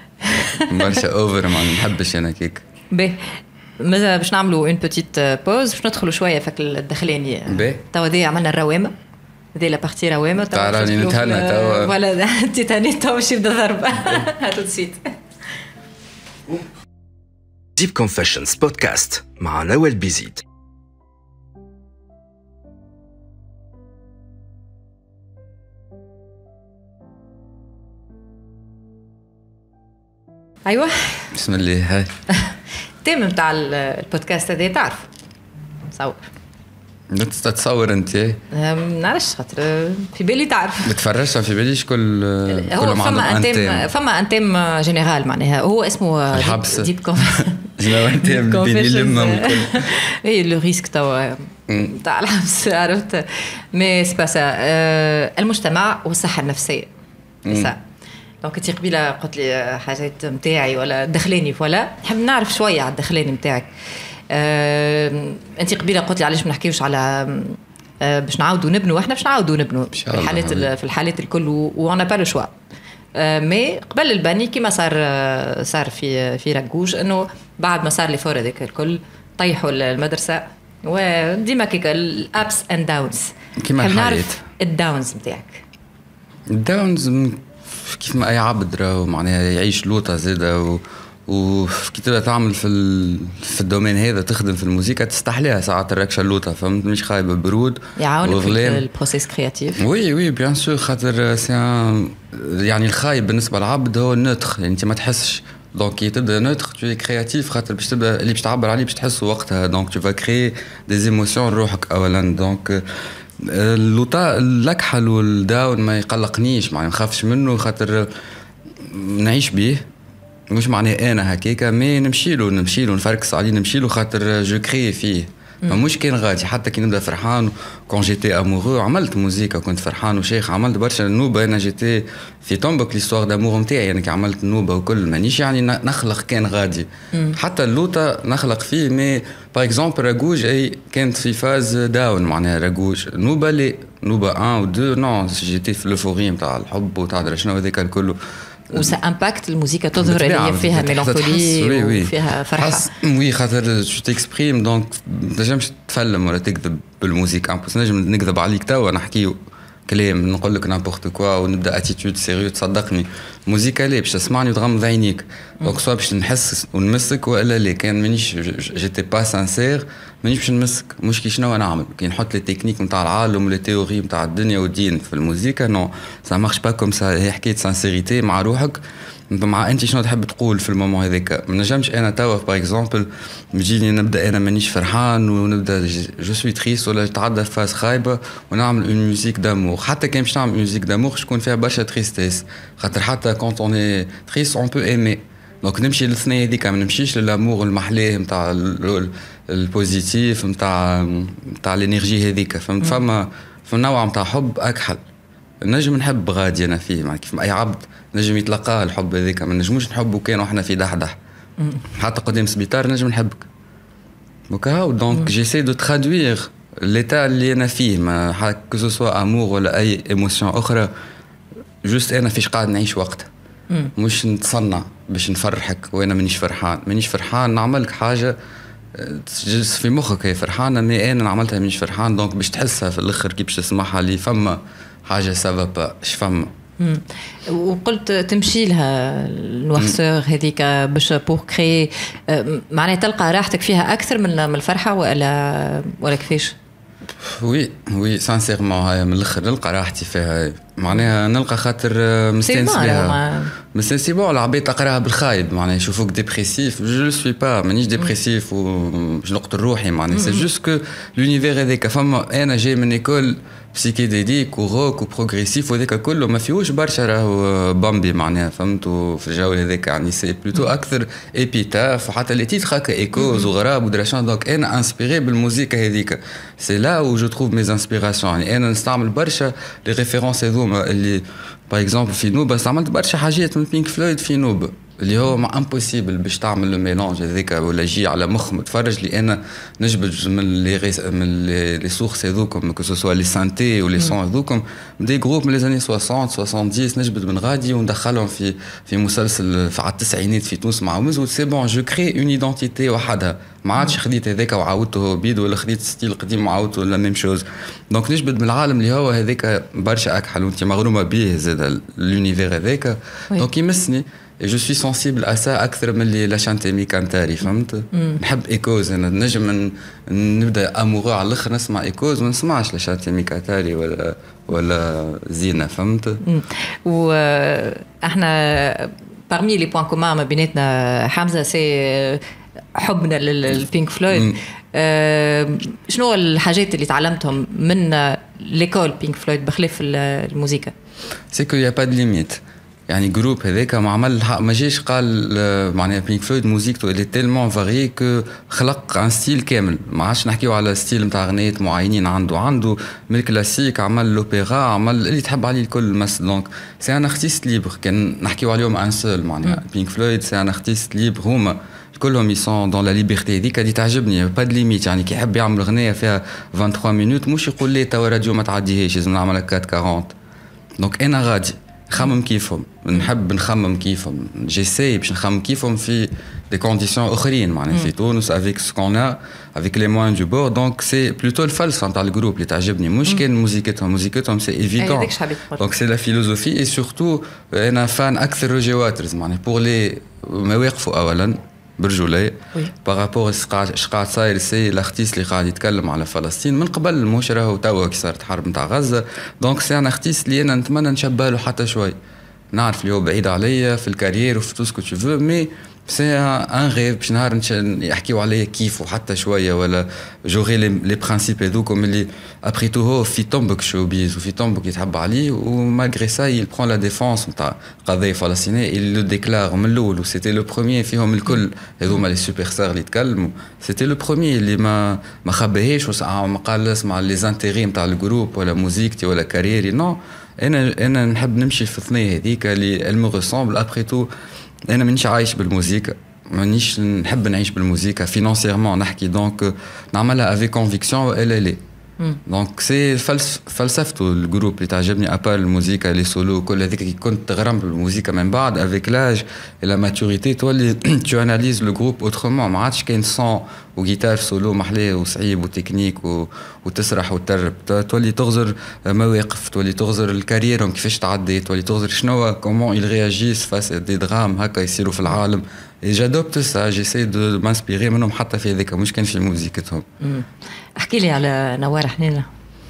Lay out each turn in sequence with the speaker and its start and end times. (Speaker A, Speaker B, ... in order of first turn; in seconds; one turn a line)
Speaker A: 0.2-0.7
Speaker B: 0.5-2.6
Speaker A: 2.9-8.9
Speaker B: 7.5-7.8
Speaker A: 9.5-15.2
Speaker B: 10.5-11.9
Speaker C: 17.8-20.4
Speaker A: 30.6-31.3
Speaker B: 31.3-32.1
Speaker A: 32.3-35.1
Speaker A: 35.9-36.2
Speaker B: 37.1-38.4
Speaker A: 38.5-40.9
Speaker B: 40.8-43.9
Speaker A: 42.5-56.9
Speaker B: 46.3-49.9
Speaker B: 51.7-51.9
Speaker B: 57.4-57.7
Speaker A: 57.5-57.8
Speaker A: 58.4-63.7
Speaker A: 64.3-72.5
Speaker B: 69.9-70.7
Speaker A: 73.1-85.6
Speaker B: 83.6-84.4
Speaker B: 86.5-98.8
Speaker A: 98.0-99.8
Speaker B: 99.8-112.8
Speaker B: 113.4-118.1
Speaker B: 118.8-119.8
Speaker B: 120.5-148.2
Speaker B: 148.7-148.9
Speaker A: 148.7-152.9
Speaker B: 150.0-205.0
Speaker B: 205.6-211.2
Speaker B: 211.9-213.4
Speaker B: 214.5-220.9
Speaker B: 221.8-223.3
Speaker B: 223.9-228.3
Speaker B: 228.9-236.5
Speaker A: 236.8-246.6
Speaker B: 247.2-253.2
Speaker A: 252.4-253.5
Speaker B: 253.7-326.2
Speaker A: 260.1-260.4
Speaker A: 317.9-318.2
Speaker A: 326.2-332.2
Speaker A: 332.8-340.7
Speaker B: 334.1-334.4
Speaker B: 341.3-370.1
Speaker B: 370.8-401.9
Speaker A: 384.8-385.7
Speaker B: 402.5-434.1
Speaker B: 434.7-441.6
Speaker B: 442.3-469.8
Speaker A: 470.0-472.3